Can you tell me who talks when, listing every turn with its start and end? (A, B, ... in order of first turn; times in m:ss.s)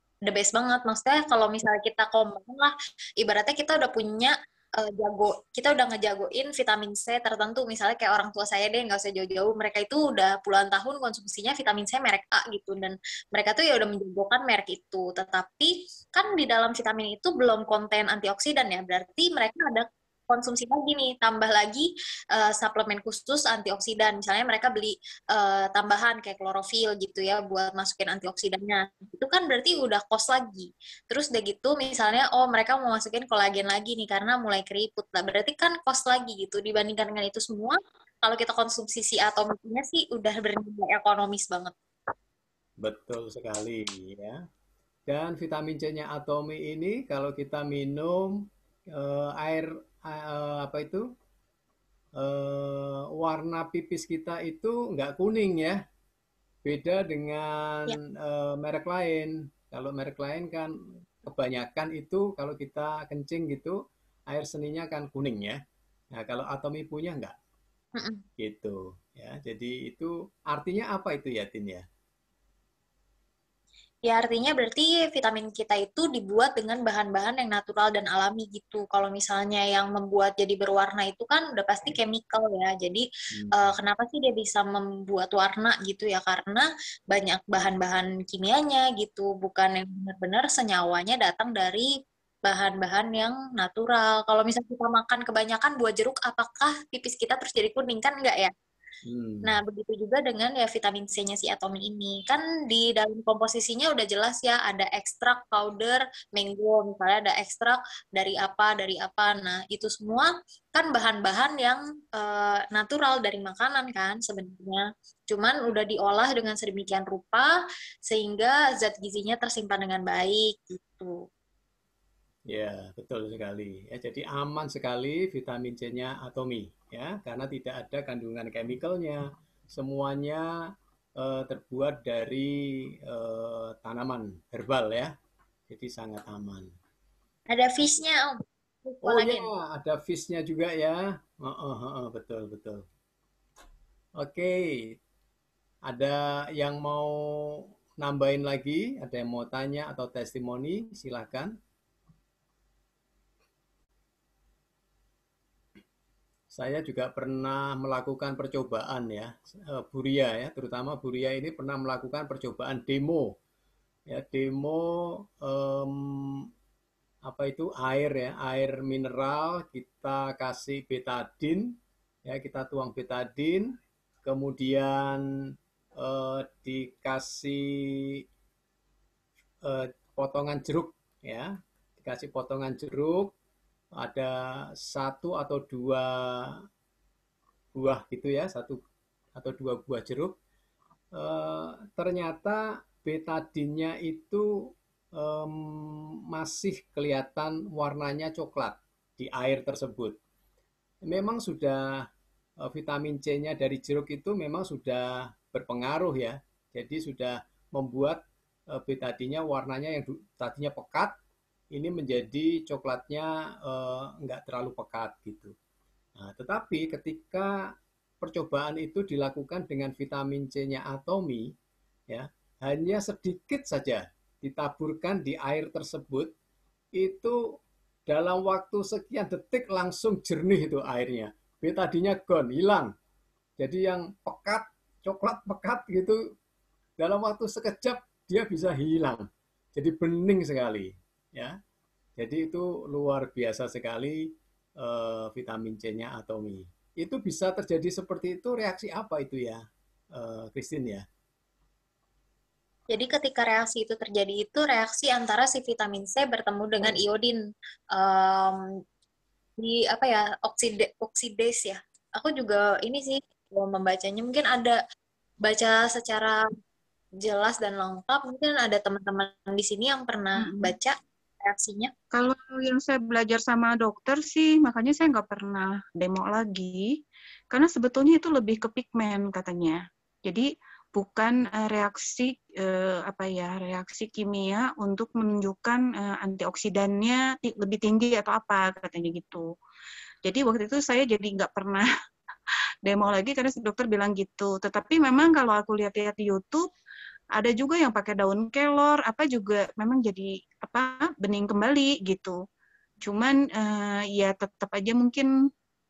0:00.2-0:41.7 A
0:42.8-0:44.4 B
0:45.1-0:51.1 B
0:52.2-0:55.8 B
0:56.6-1:03.8 B
1:04.3-1:05.6 B
1:06.1-1:07.3 B
1:08.0-1:08.2 A
1:08.4-1:11.8 B
1:14.0-1:31.9 A
1:23.3-1:23.7 B
1:32.4-1:38.5 A
1:39.0-1:39.6 B
1:39.4-1:57.5 A
1:58.1-2:01.2 A
2:02.5-2:15.1 B
2:15.7-2:16.7 B
2:17.5-2:19.5 A
2:19.0-2:22.8 B
2:24.2-2:25.0 B
2:25.8-2:31.5 B
2:36.5-2:43.3 B
2:44.1-2:46.5 B
2:47.2-2:55.2 B
2:56.0-2:58.2 B
2:59.6-3:03.3 B
3:04.0-3:06.6 B
3:07.7-3:08.8 B
3:09.4-3:10.4 B
3:11.1-3:20.2 B
3:21.1-3:22.1 B
3:22.6-3:31.2 B
3:31.7-3:35.5 B
3:36.2-3:41.5 B
3:42.1-3:46.3 B
3:47.0-3:52.9 B
3:53.6-3:56.3 B
3:57.0-4:01.6 B
4:02.2-4:11.0 B
4:12.9-4:17.4 A
4:17.9-4:18.6 A
4:19.6-4:24.8 A
4:25.4-4:26.4 A
4:27.2-4:31.9 A
4:30.4-4:30.7 C
4:32.1-4:49.4 C
4:50.2-4:51.9 C
4:52.8-4:56.6 C
4:57.3-5:02.4 C
5:03.0-5:05.3 C